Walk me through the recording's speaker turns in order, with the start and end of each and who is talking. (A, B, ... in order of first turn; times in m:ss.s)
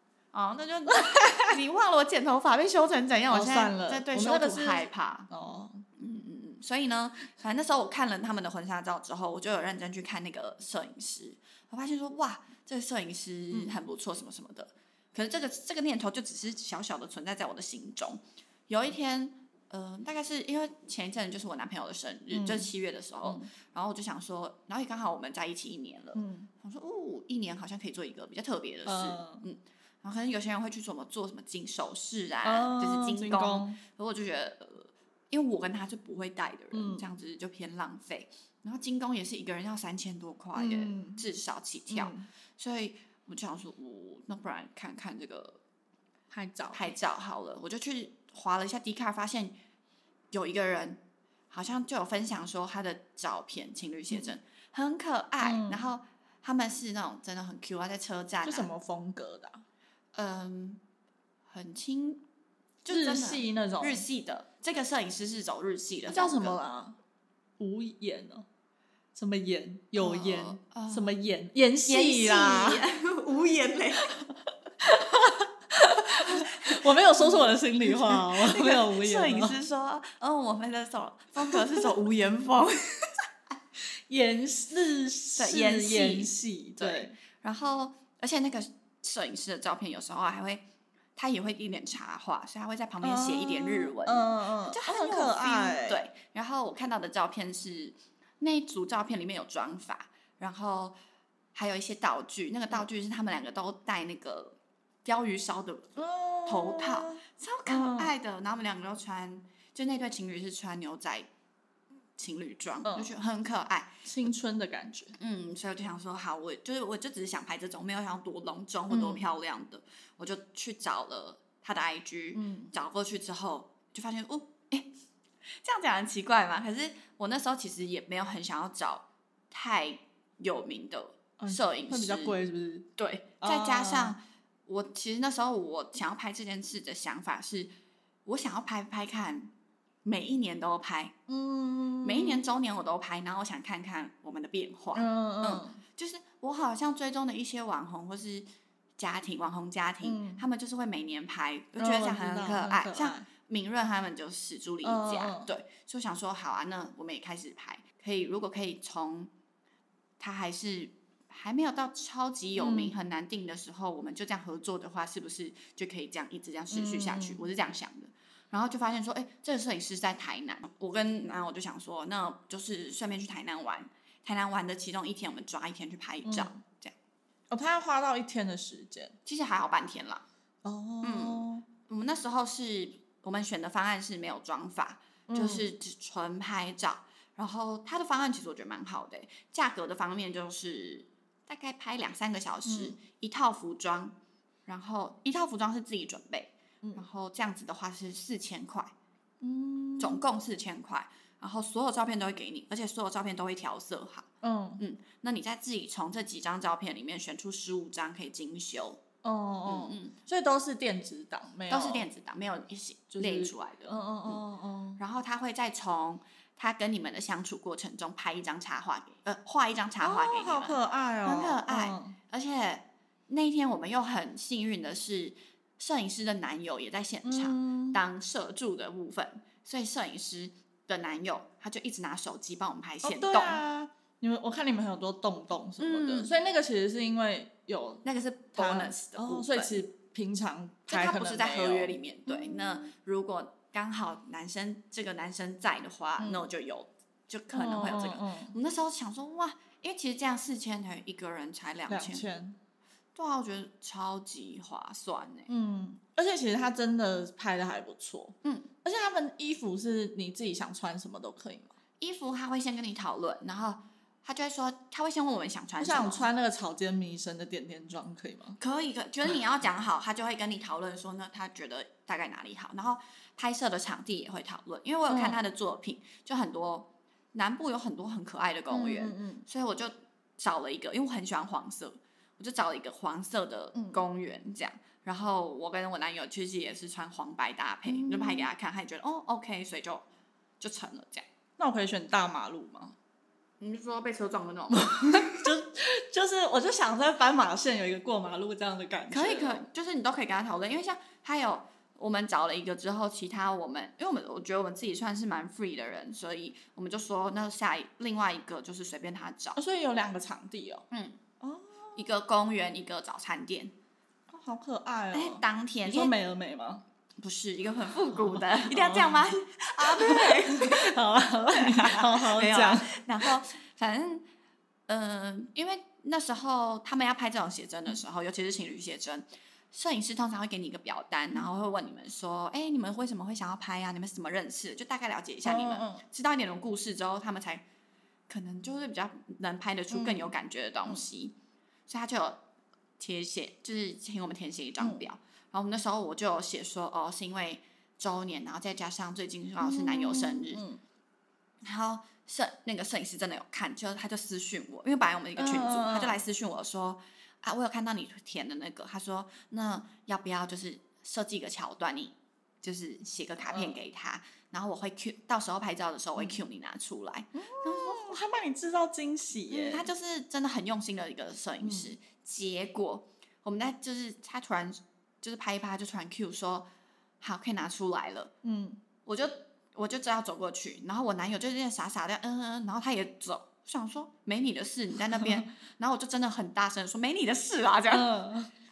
0:00.3-0:05.3 A
0:00.9-0:01.4 B
0:03.3-0:05.8 B
0:06.0-0:45.6 A
0:13.5-0:13.8 B
0:22.3-0:22.7 B
0:23.2-0:23.5 B
0:26.1-0:26.5 B
0:28.8-0:29.4 B
0:32.4-0:33.8 B
0:36.7-0:37.0 B
0:40.5-0:41.2 B
0:41.9-0:42.3 B
0:46.3-0:46.8 B
0:46.7-0:49.6 A
0:50.3-0:51.0 A
0:51.5-0:58.7 A
0:55.4-0:55.8 B
0:58.4-0:59.6 B
1:00.1-1:00.8 A
1:01.5-1:02.2 A
1:02.8-1:06.6 A
1:02.9-1:04.0 B
1:06.1-1:07.0 B
1:07.6-1:08.4 B
1:09.1-1:12.8 B
1:10.0-1:11.1 A
1:11.8-1:14.2 A
1:14.8-1:19.6 B
1:16.2-1:23.1 A
1:21.5-1:21.8 B
1:23.9-1:27.2 B
1:25.4-1:30.6 A
1:31.2-1:41.0 A
1:33.0-1:36.0 B
1:41.5-1:45.9 A
1:46.0-1:48.1 B
1:46.4-1:51.3 A
1:52.2-1:54.0 A
1:52.8-1:53.1 B
1:54.0-1:55.1 B
1:55.2-2:04.9 A
1:58.9-1:59.2 B
2:02.3-2:02.7 B
2:05.5-2:12.4 A
2:11.4-2:12.9 B
2:13.0-2:17.7 A
2:13.4-2:14.2 B
2:18.2-2:19.5 A
2:20.0-2:21.2 A
2:21.3-2:22.4 B
2:22.0-2:28.4 A
2:24.9-2:25.8 B
2:29.0-2:39.3 A
2:30.0-2:30.4 B
2:31.8-2:33.3 B
2:34.8-2:35.5 B
2:40.2-2:56.9 A
2:42.6-2:42.9 B
2:46.7-2:47.4 B
2:56.2-2:56.6 B
2:57.5-2:59.2 B
2:59.2-3:00.2 A
3:00.6-3:01.7 B
3:01.0-3:14.1 A
3:05.3-3:05.7 B
3:12.6-3:13.0 B
3:14.6-3:18.9 A
3:19.4-3:20.2 B
3:20.0-3:29.0 A
3:24.4-3:24.8 B
3:29.2-3:32.1 B
3:29.6-3:30.1 A
3:31.7-3:34.4 A
3:33.1-3:35.0 B
3:35.0-3:53.6 A
3:40.0-3:42.2 B
3:47.2-3:48.0 B
3:53.0-3:58.0 B
3:55.8-3:56.3 A
3:58.0-3:59.9 A
3:58.6-4:02.9 B
4:00.9-4:12.2 A
4:06.2-4:06.5 B
4:07.5-4:08.6 B
4:11.9-4:12.6 B
4:13.1-4:15.5 A
4:15.5-4:21.7 B
4:18.4-4:18.7 A
4:22.0-4:26.3 A
4:25.8-4:28.6 B
4:28.6-4:50.0 A
4:35.1-4:35.4 B
4:38.7-4:39.4 B
4:43.7-4:44.0 B
4:47.8-4:48.5 B
4:50.6-4:51.2 A
4:51.6-4:53.0 B
4:53.6-4:55.5 A
4:54.7-4:59.6 B
4:59.1-5:09.6 A
5:09.6-5:10.8 B
5:10.9-5:11.2 A
5:11.4-5:12.1 B
5:12.0-5:13.7 A
5:14.3-5:16.8 B
5:15.1-5:16.1 A
5:17.2-5:21.0 A
5:18.1-5:23.3 B
5:21.5-5:24.2 A
5:24.9-5:37.6 A
5:35.4-5:36.0 B
5:38.3-5:41.3 A
5:39.9-5:40.3 B
5:41.9-5:42.4 A
5:43.0-5:50.6 A
5:44.8-5:45.0 B
5:49.6-5:50.8 B
5:51.6-6:08.2 A
5:55.4-5:56.2 B
6:03.5-6:03.8 B
6:07.3-6:09.9 B
6:09.5-6:16.7 A
6:11.6-6:11.9 B
6:17.2-6:18.3 A
6:18.4-6:18.8 B
6:19.0-6:28.1 A
6:27.9-6:28.5 B